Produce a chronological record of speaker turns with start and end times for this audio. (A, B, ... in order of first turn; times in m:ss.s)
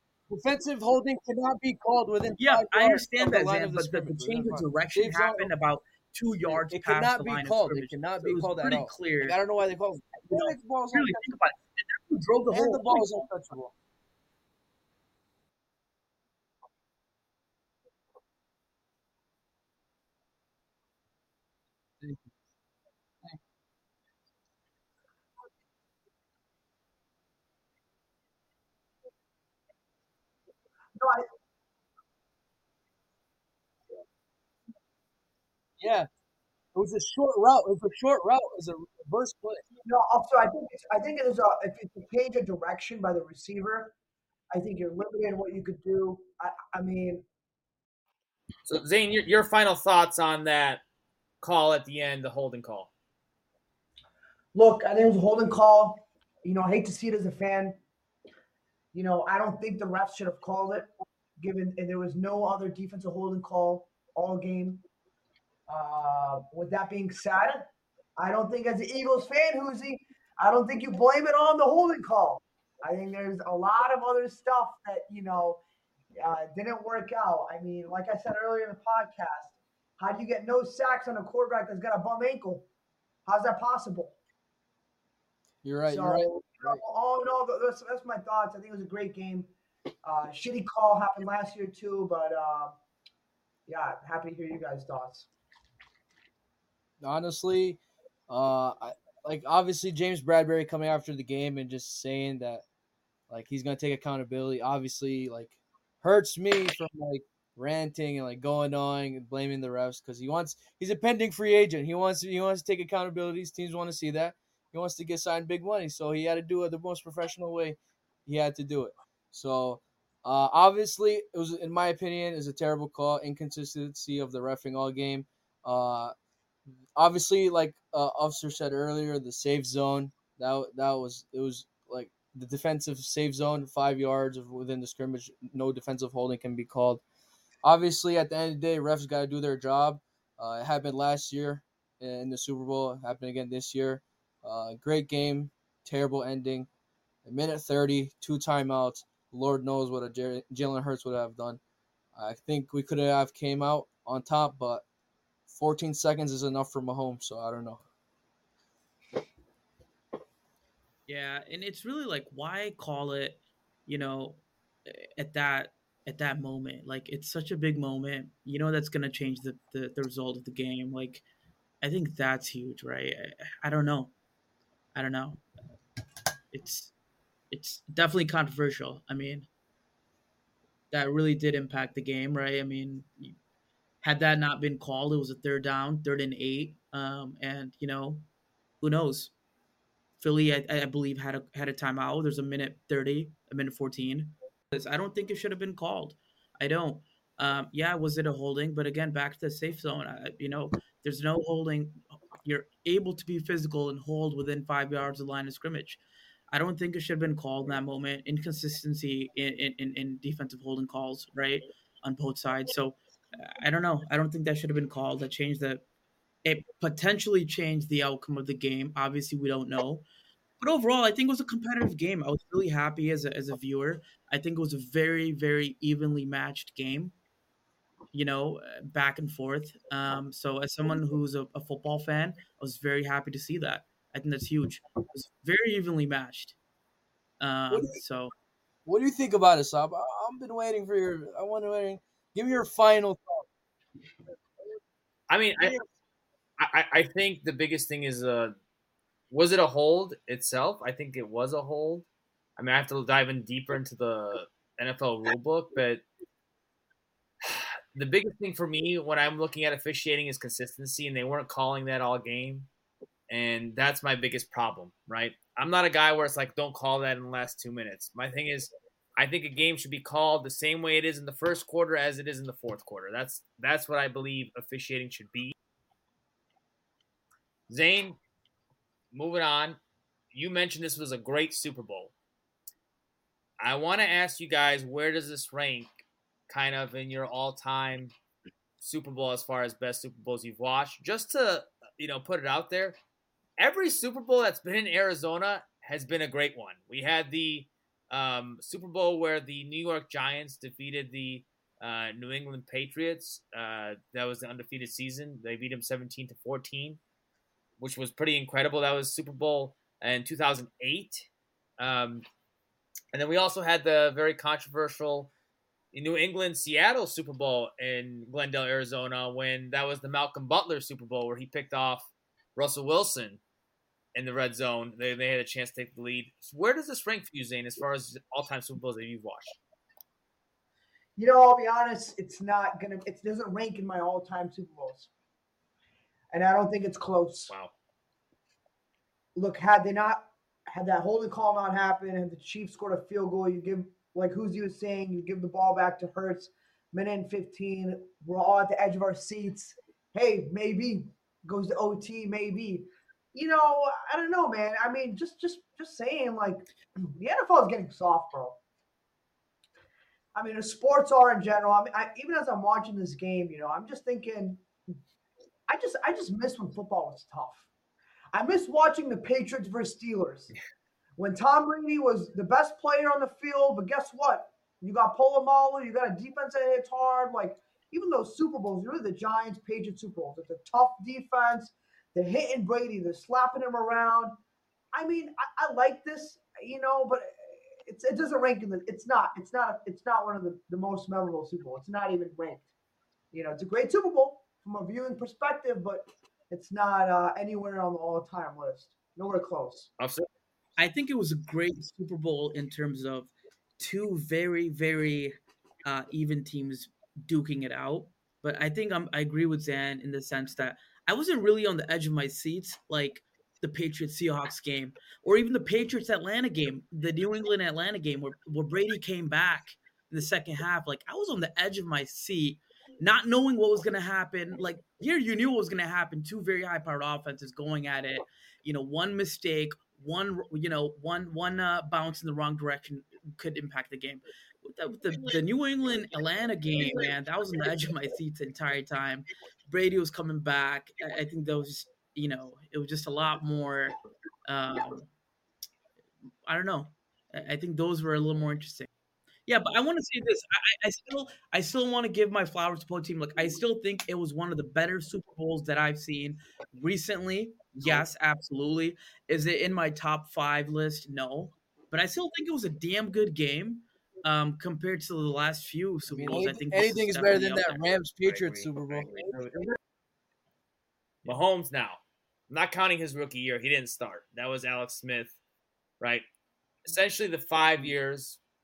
0:00.3-0:05.5 A
0:02.4-0:09.4 B
0:06.4-0:11.4 A
0:10.2-0:13.2 B
0:12.5-0:13.7 A
0:31.0-0:31.3 C
0:35.8-0:36.1 A
0:36.8-0:39.6 A
0:39.8-0:43.9 C
0:44.5-0:47.2 C
0:48.7-0:50.8 D
0:51.4-0:52.9 D
0:54.6-0:57.8 C
0:58.9-1:04.8 C
1:05.7-1:15.6 C
1:16.2-1:22.7 C
1:23.3-1:24.2 C
1:25.6-1:26.8 A
1:25.9-1:29.5 C
1:30.0-1:32.8 C
1:33.7-1:35.3 C
1:37.0-1:42.6 A
1:43.3-2:06.1 A
2:07.0-2:17.0 A
2:17.6-2:26.7 A
2:27.2-2:31.6 A
2:32.2-2:34.8 A
2:35.5-2:37.8 A
2:41.1-2:51.2 B
2:51.8-2:54.1 B
2:55.0-2:55.4 B
2:56.5-2:56.9 B
2:57.5-2:59.5 B
3:00.9-3:03.4 B
3:04.0-3:08.2 B
3:08.8-3:09.3 B
3:10.2-3:35.8 B
3:36.4-3:40.0 B
3:40.6-3:47.2 B
3:48.1-3:56.6 B
3:57.4-3:58.3 B
3:57.7-3:58.0 A
3:58.8-4:03.5 A
4:05.3-4:05.8 D
4:06.6-4:08.6 D
4:09.3-4:12.1 D
4:12.6-4:16.0 D
4:17.4-4:22.7 D
4:23.3-4:35.5 D
4:37.7-4:38.2 D
4:39.1-4:39.8 D
4:40.3-4:42.1 D
4:43.6-4:48.1 D
4:48.8-4:53.0 D
4:53.6-5:07.0 D
5:07.8-5:12.3 D
5:13.1-5:15.3 D
5:15.9-5:23.4 D
5:24.2-5:29.6 D
5:31.2-5:35.1 C
5:36.3-5:37.5 C
5:39.4-5:58.6 C
6:00.4-6:04.6 C
6:05.7-6:07.7 C
6:08.3-6:10.6 C
6:11.2-6:24.4 C
6:24.9-6:32.7 C
6:33.3-6:39.9 C
6:40.0-6:40.3 D
6:40.8-7:25.1 B
7:26.5-7:28.9 B
7:29.5-7:47.8 B
7:37.8-7:38.1 D
7:46.1-7:49.3 A
7:48.2-7:49.8 D
7:51.2-7:55.4 D
7:56.0-7:56.3 D
7:56.8-7:58.4 D